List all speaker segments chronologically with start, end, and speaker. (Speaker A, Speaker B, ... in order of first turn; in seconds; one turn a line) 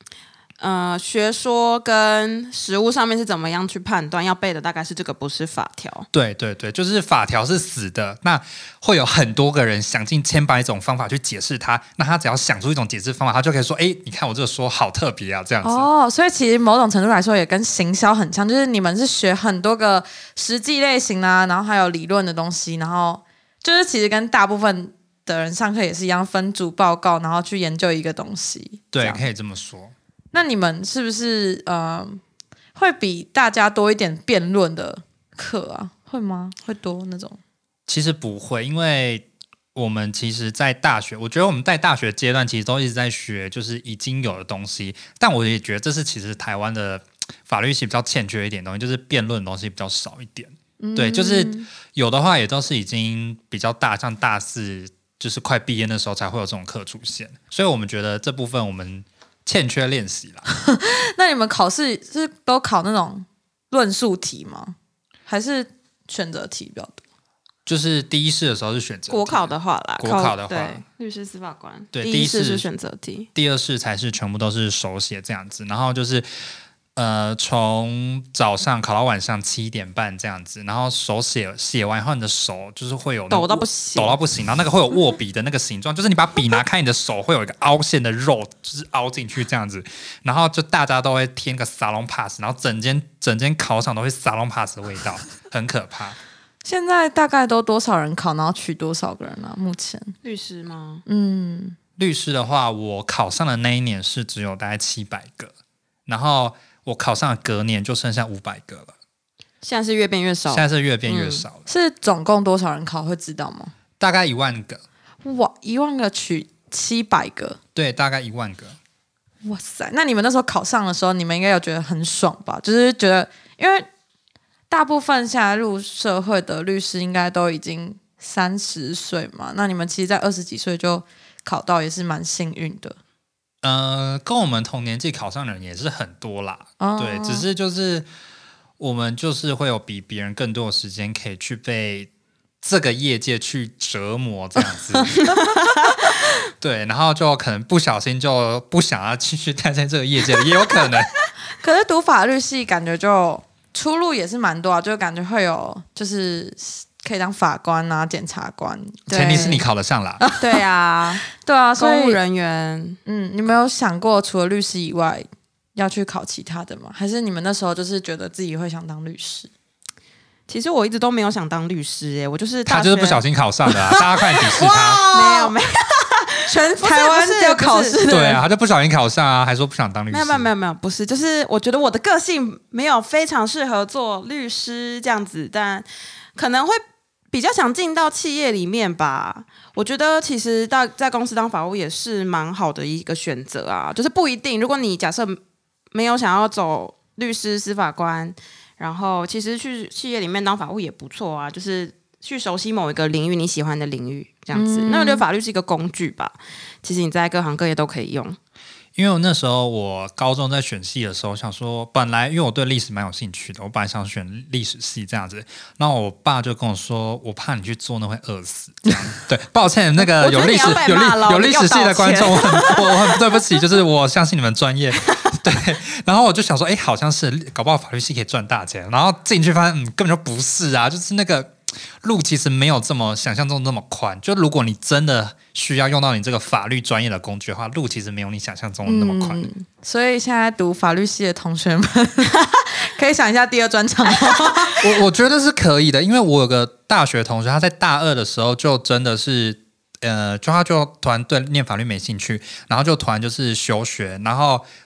Speaker A: 0.6-6.1
Speaker B: 6.1-15.9
Speaker C: 15.6-29.2
Speaker B: 28.9-29.9
Speaker C: 30.3-32.2
Speaker C: 32.8-37.4
Speaker B: 37.9-60.5
Speaker C: 50.8-51.7
Speaker C: 60.5-64.8
Speaker C: 65.3-67.0
Speaker B: 67.7-70.8
Speaker A: 69.1-73.3
Speaker B: 71.9-72.7
Speaker B: 73.3-76.3
Speaker B: 77.0-96.2
Speaker A: 83.3-84.2
Speaker C: 96.7-100.2
Speaker A: 100.2-101.0
Speaker C: 101.1-101.8
Speaker B: 102.0-105.5
Speaker B: 106.1-109.0
Speaker A: 109.6-111.5
Speaker B: 110.5-111.7
Speaker C: 111.7-113.7
Speaker B: 114.0-114.8
Speaker C: 115.2-117.6
Speaker B: 117.8-118.8
Speaker C: 119.5-123.9
Speaker C: 124.7-133.0
Speaker B: 133.6-138.1
Speaker C: 136.8-137.4
Speaker B: 138.8-142.1
Speaker B: 142.6-145.2
Speaker B: 146.6-151.1
Speaker C: 151.6-159.6
Speaker A: 159.1-159.6
Speaker B: 159.1-160.2
Speaker C: 160.2-160.6
Speaker A: 160.4-161.2
Speaker C: 161.3-162.2
Speaker A: 161.8-163.0
Speaker C: 163.1-169.5
Speaker A: 170.5-173.2
Speaker B: 172.7-175.0
Speaker C: 174.3-175.5
Speaker A: 175.1-178.0
Speaker C: 176.5-178.4
Speaker B: 178.1-180.5
Speaker A: 180.1-186.8
Speaker A: 187.3-195.4
Speaker A: 195.9-208.4
Speaker C: 204.5-205.2
Speaker B: 209.0-239.5
Speaker A: 220.0-223.4
Speaker C: 238.8-244.8
Speaker B: 244.8-254.7